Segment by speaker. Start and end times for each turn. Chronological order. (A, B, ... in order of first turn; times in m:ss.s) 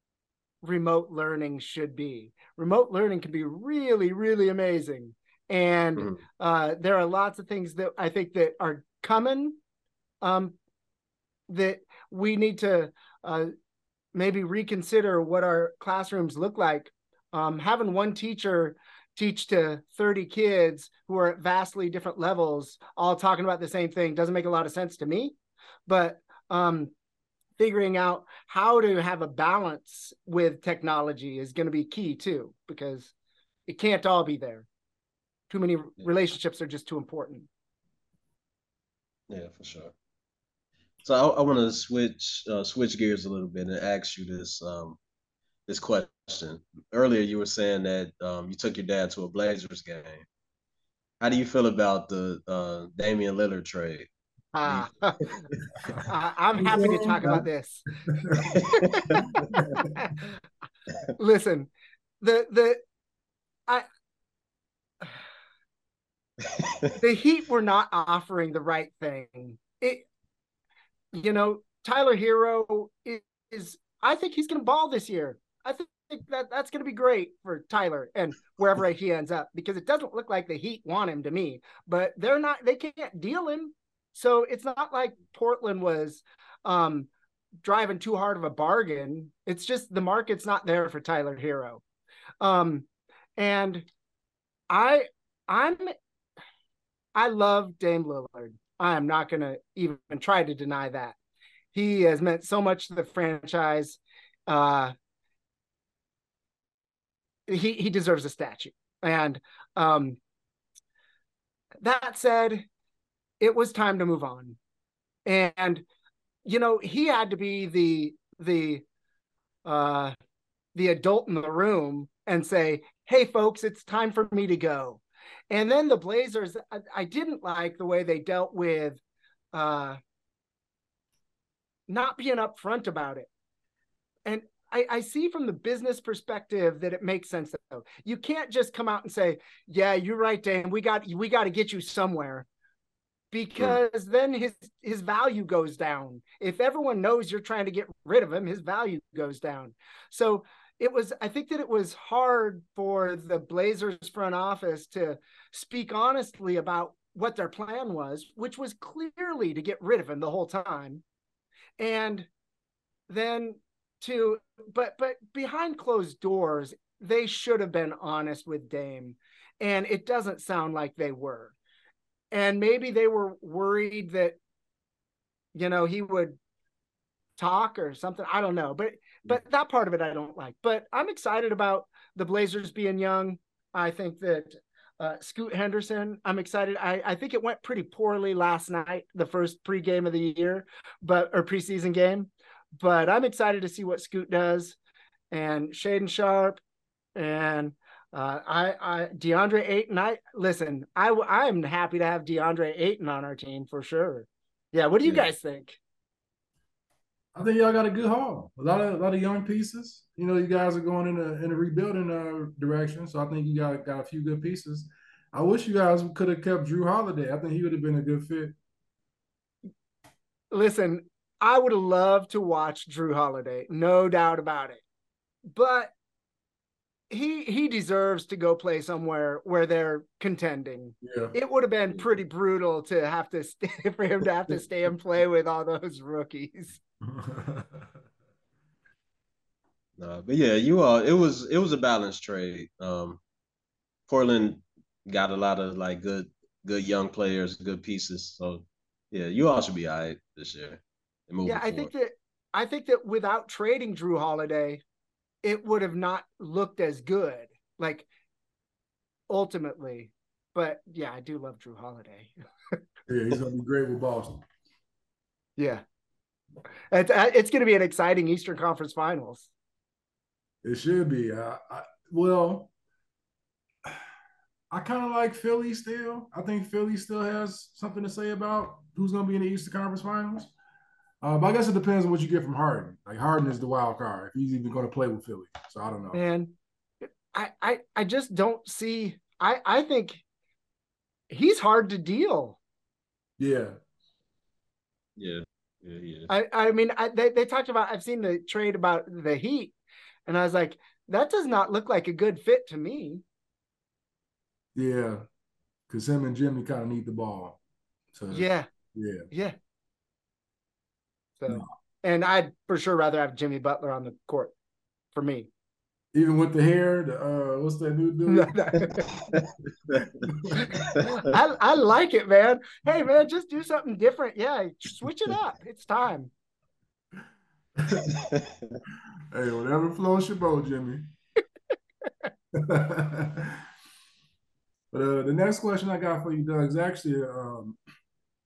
0:00.6-0:09.6 A
0:10.2-0:10.6 A
0:11.5-0:13.5 A
0:14.1-0:25.4 A
0:25.9-0:26.9 A
0:27.6-0:33.1 A
0:33.7-0:34.7 A
0:35.5-0:37.5 A
0:39.3-0:39.9 B
0:41.0-0:45.0 B
0:45.7-0:50.2 B
0:51.2-0:54.1 B
0:54.5-0:55.4 A
0:56.1-0:57.9 A
0:56.6-0:57.4 C
0:58.1-0:58.5 C
0:58.5-0:59.0 A
0:58.6-0:59.3 B
0:59.5-0:59.9 C
0:59.7-1:00.3 A
1:01.2-1:01.7 A
1:02.2-1:02.8 A
1:06.4-1:06.9 B
1:07.0-1:10.1 A
1:11.1-1:27.1 A
1:27.6-1:31.8 A
1:32.4-1:32.9 A
1:33.4-1:33.9 A
1:34.7-1:35.9 A
1:37.2-1:41.2 A
1:41.7-1:44.9 A
1:47.5-1:50.2 A
1:51.8-1:52.7 A
1:53.4-1:54.6 A
1:55.3-1:55.8 A
1:56.4-1:58.8 A
1:59.6-2:00.2 A
2:00.8-2:09.0 A
2:09.5-2:10.0 A
2:11.9-2:13.3 A
2:14.3-2:22.5 A
2:23.3-2:41.0 A
2:41.8-2:42.3 A
2:43.1-2:51.6 A
2:52.3-2:54.4 A
2:55.5-2:56.4 A
2:57.4-3:14.8 A
3:15.3-3:16.6 A
3:17.2-3:25.8 A
3:25.0-3:25.3 B
3:27.4-3:38.6 C
3:40.5-3:44.8 A
3:45.5-3:45.9 A
3:47.1-3:56.8 A
3:51.0-3:51.4 C
3:57.0-3:57.9 C
4:00.0-4:03.2 B
4:04.1-4:11.9 B
4:11.5-4:14.8 A
4:15.4-4:18.1 A
4:19.3-4:22.4 A
4:23.1-4:24.4 C
4:25.6-4:25.8 A
4:26.9-4:29.5 A
4:30.6-4:32.7 C
4:34.7-4:40.5 C
4:41.2-4:46.2 C
4:46.1-4:46.5 A
4:47.3-4:50.2 A
4:51.3-4:52.6 A
4:53.4-4:53.8 C
4:55.2-4:56.3 B
4:56.3-4:59.7 A
5:00.3-5:03.2 A
5:04.8-5:05.2 C
5:05.9-5:07.6 C
5:08.1-5:09.3 C
5:08.3-5:08.7 A
5:09.3-5:09.6 A
5:11.4-5:14.5 A
5:15.1-5:15.5 A
5:16.1-5:18.9 C
5:18.3-5:19.1 A
5:19.3-5:20.3 B
5:20.0-5:20.9 C
5:20.6-5:26.3 A
5:20.8-5:21.2 B
5:27.8-5:28.2 C
5:28.1-5:28.8 B
5:29.3-5:31.1 C
5:32.5-5:33.6 C
5:34.9-5:37.8 C